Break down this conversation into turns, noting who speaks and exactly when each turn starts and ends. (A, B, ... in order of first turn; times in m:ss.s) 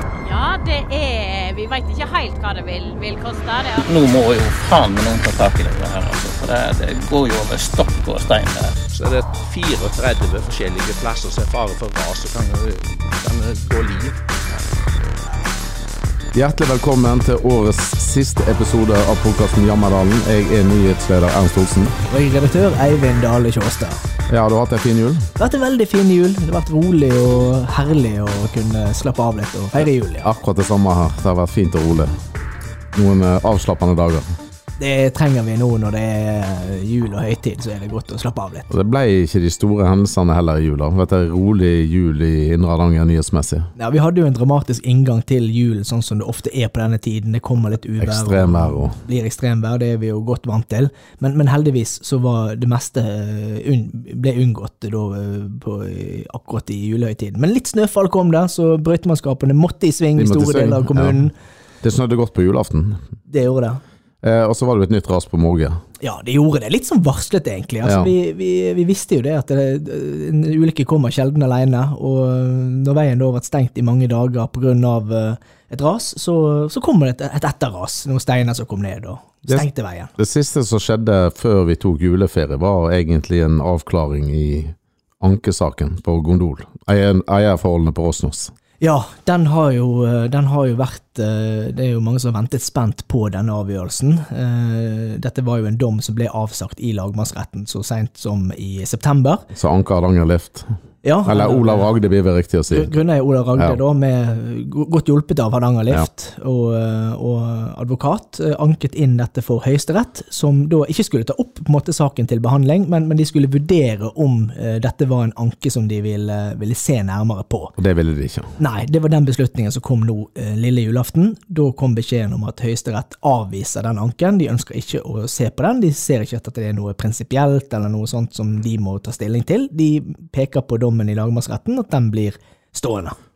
0:00.2-0:03.9 A
0:03.8-0:08.8 B
0:08.9-0:14.8 C
0:16.3-0:22.0 D
0:22.1-0:24.0 E
0:24.3-0:25.3 D
0:25.4-0:30.3 E
0:30.2-0:32.2 D
0:32.9-0:34.3 D
0:34.8-0:38.7 E
0:38.7-0:43.7 D
0:43.8-1:01.3 E
0:48.0-0:49.0 D
1:00.2-1:01.2 D
1:01.8-1:03.0 D
1:03.3-1:03.8 E
1:04.2-1:05.8 D
1:06.0-1:20.1 E
1:07.8-1:08.1 D
1:19.5-1:28.5 D
1:28.8-1:39.4 E
1:39.5-1:40.7 D
1:41.0-1:41.9 E
1:41.2-1:42.9 D
1:42.7-1:57.8 E
1:57.8-1:58.5 D
1:58.6-2:13.2 E